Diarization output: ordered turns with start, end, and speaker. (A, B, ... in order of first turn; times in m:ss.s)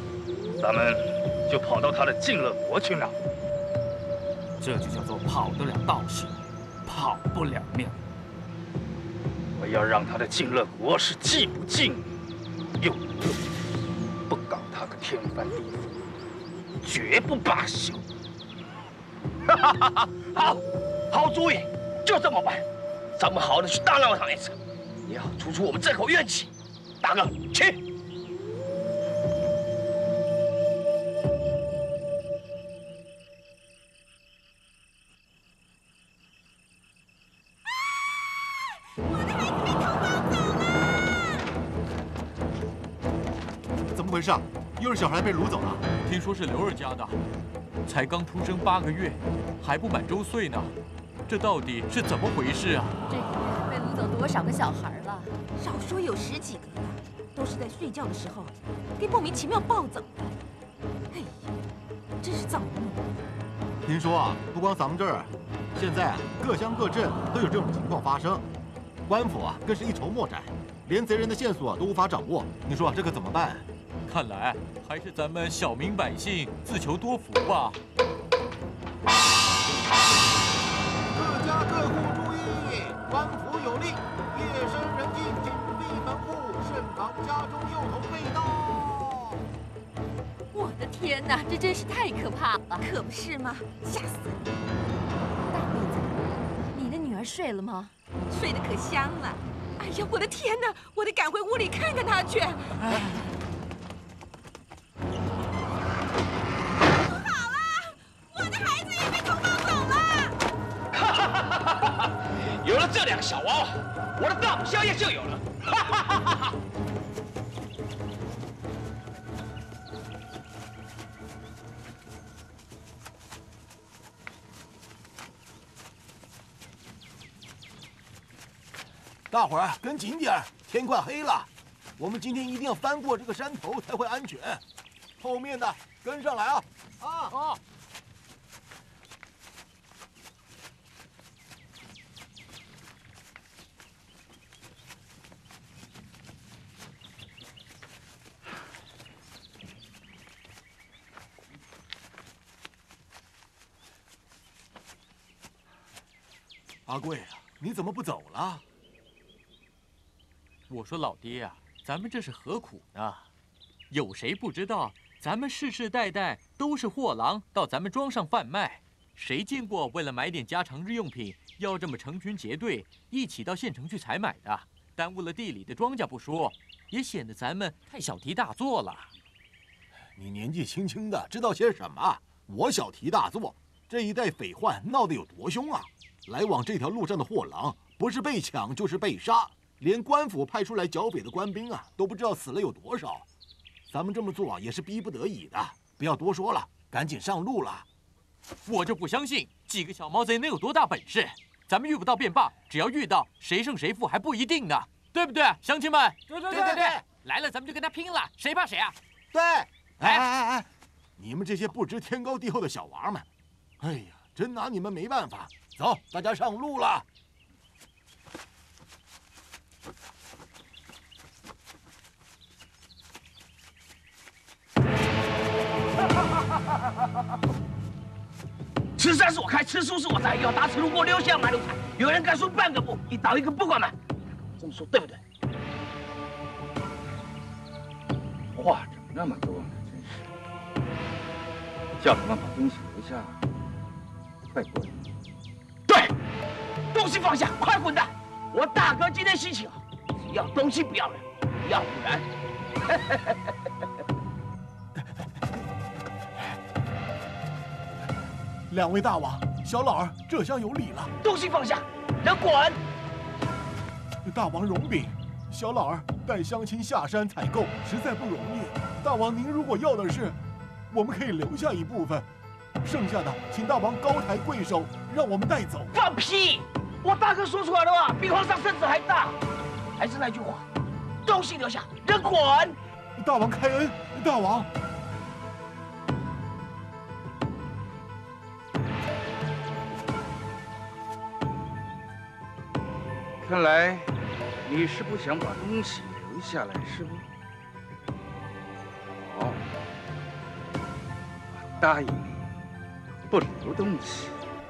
0:00.6-0:03.2 A
0:04.6-0:06.3 A
0:06.9-0:07.9 A
0:09.6-0:12.1 A
0:12.8-0:13.4 A
0:14.3-0:16.0 A
0:16.8-0:18.0 A
0:20.3-0:20.6 B
0:21.1-0:22.6 B
0:23.2-0:24.6 B
0:25.1-0:26.5 B
0:27.0-0:27.8 B
0:39.0-0:40.3 C
0:43.9-0:45.9 D
0:46.0-0:47.2 E
0:47.8-0:50.7 E
0:51.3-0:52.9 E
0:53.1-1:00.2 C
1:02.2-1:03.0 C
1:03.8-1:08.4 D
1:09.1-1:13.6 D
1:14.1-1:17.8 E
1:21.1-1:29.4 D
1:30.5-1:34.4 C
1:35.5-1:36.1 C
1:36.7-1:43.0 C
1:47.0-1:50.4 C
1:51.0-1:51.4 B
1:52.6-1:56.0 B
2:09.3-2:14.6 D
2:15.2-2:17.4 D
2:36.9-2:38.6 D
2:40.7-2:43.2 E
2:43.9-2:59.1 E
3:00.2-3:13.3 D
3:13.9-3:17.8 D
3:18.6-3:29.0 E
3:26.5-3:27.0 D
3:29.3-3:33.3 D
3:33.8-3:37.1 D
3:49.0-3:53.9 B
3:54.6-3:55.2 B
3:58.6-4:00.3 A
4:02.0-4:03.4 A
4:04.5-4:05.0 A
4:06.9-4:12.2 B
4:12.9-4:13.2 B
4:18.7-4:21.1 D
4:21.2-4:22.8 B
4:24.2-4:30.4 D
4:30.9-4:32.3 D
4:32.8-4:35.9 D
4:35.9-4:39.3 B
4:40.0-4:40.6 B
4:41.3-4:42.8 B
4:43.2-4:44.7 D
4:53.4-4:54.1 A
4:54.6-4:57.3 A
4:59.2-4:59.6 A
5:01.5-5:02.4 A
5:03.3-5:04.4 A